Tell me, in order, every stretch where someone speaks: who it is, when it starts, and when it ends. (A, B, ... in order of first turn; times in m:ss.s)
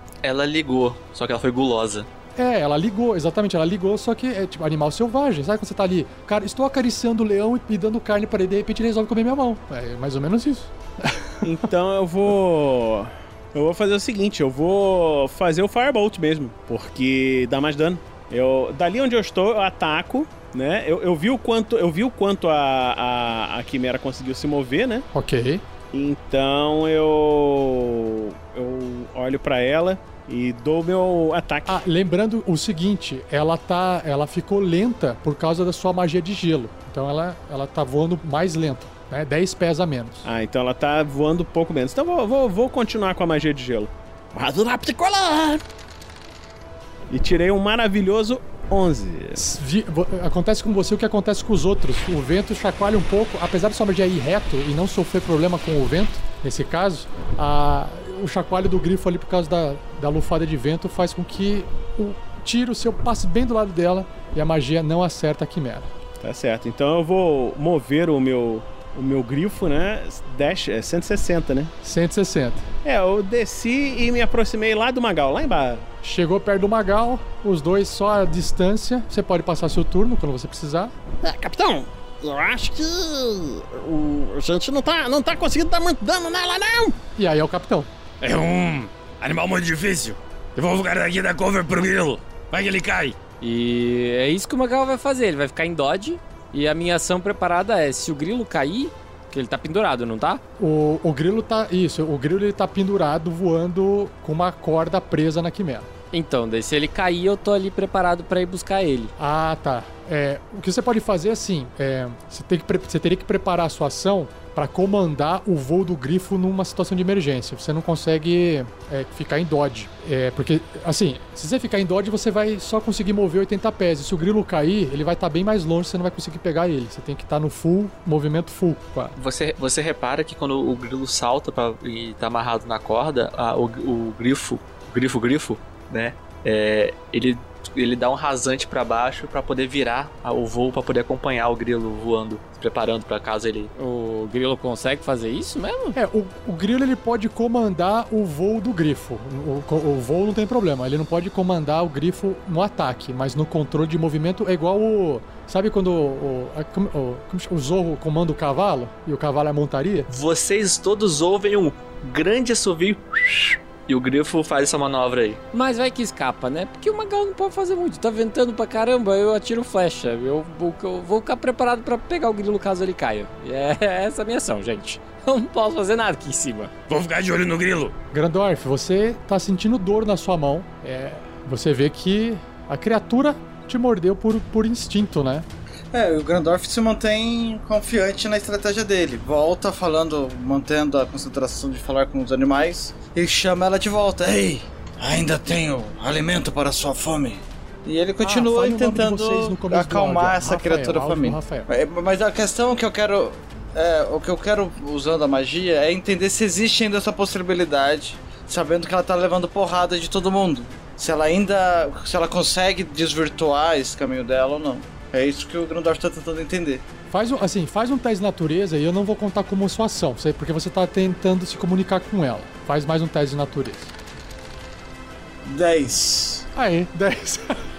0:00.2-0:02.1 A
0:02.4-0:11.4 B
0:11.4-0:25.0 C
0:25.1-0:25.6 B
0:25.9-0:31.8 C
0:31.6-0:40.3 B
0:40.2-0:43.9 C
0:44.3-0:45.6 D
0:47.1-0:49.4 C
0:49.3-1:05.9 B
1:06.2-1:11.7 C
1:11.8-1:12.7 B
1:12.8-1:15.8 C
1:16.0-1:20.9 B
1:21.2-1:27.0 D
1:27.2-1:27.9 B
1:28.2-1:33.2 E
1:33.4-1:40.4 F
1:40.6-1:45.9 B
1:46.1-1:49.1 F
1:49.2-2:09.1 B
2:09.2-2:23.7 A
2:23.8-2:25.9 F
2:25.9-2:40.1 B
2:40.1-2:45.4 A
2:45.5-2:56.8 F
2:56.9-2:57.9 E
2:58.1-3:05.5 B
3:05.9-3:36.8 G
3:18.2-3:21.7 B
3:37.1-3:43.9 B
3:45.4-3:46.5 G
3:46.5-3:47.6 B